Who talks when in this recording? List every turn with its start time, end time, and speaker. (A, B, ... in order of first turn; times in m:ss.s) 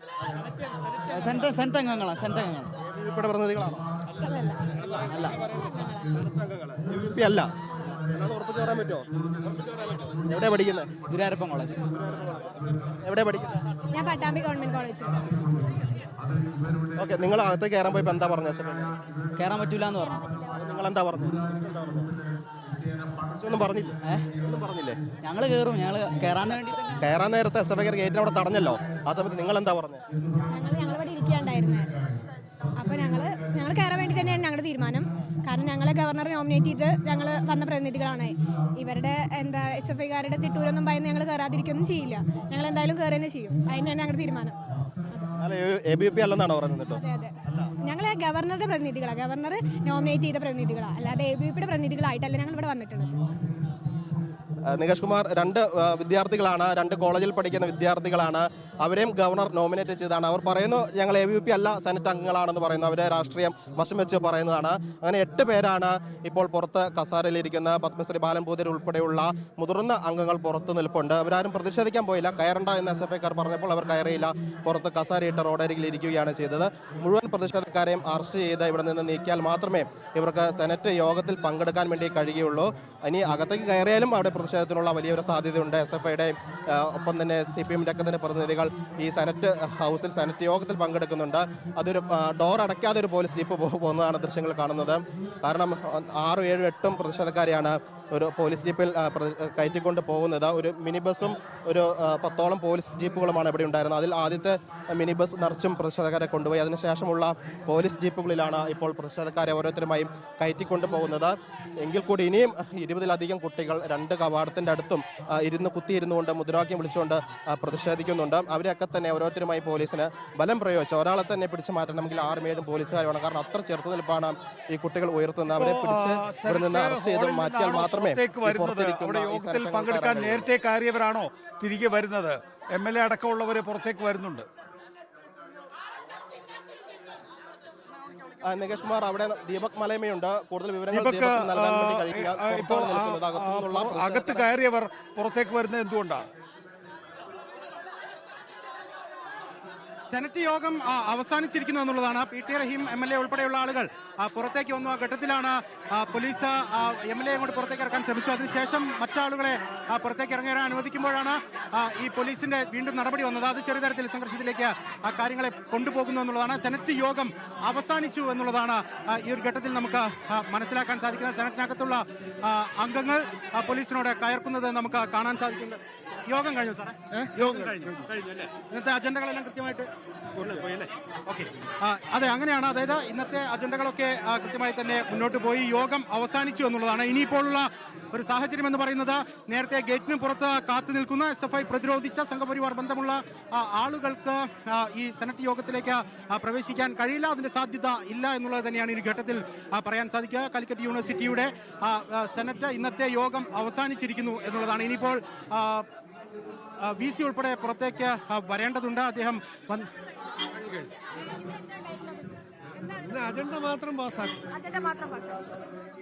0:00.8-0:02.8 A
0:02.8-0:03.9 B
0:04.2-0:06.2 C
0:05.0-0:05.4 A
0:06.2-0:09.1 B
0:10.1-0:11.0 B
0:11.0-0:11.8 A
0:11.8-0:13.6 B
0:13.9-0:15.7 C
0:16.9-0:19.0 B
0:19.4-0:20.1 A
0:19.9-0:20.7 C
0:20.5-0:22.1 B
0:23.3-0:25.0 B
0:24.0-0:24.3 A
0:25.2-0:27.1 A
0:27.0-0:30.0 B
0:30.4-0:32.1 C
0:32.8-0:44.6 C
0:45.4-0:47.7 B
0:46.9-0:53.3 C
0:54.7-2:10.5 B
2:05.5-2:14.5 D
2:18.4-2:24.5 B
2:20.9-2:26.3 D
2:30.1-3:25.9 E
2:57.4-2:57.7 D
3:26.8-3:29.9 E
3:31.5-3:32.0 C
3:32.9-3:33.6 C
3:33.7-3:34.1 D
3:34.4-3:35.5 C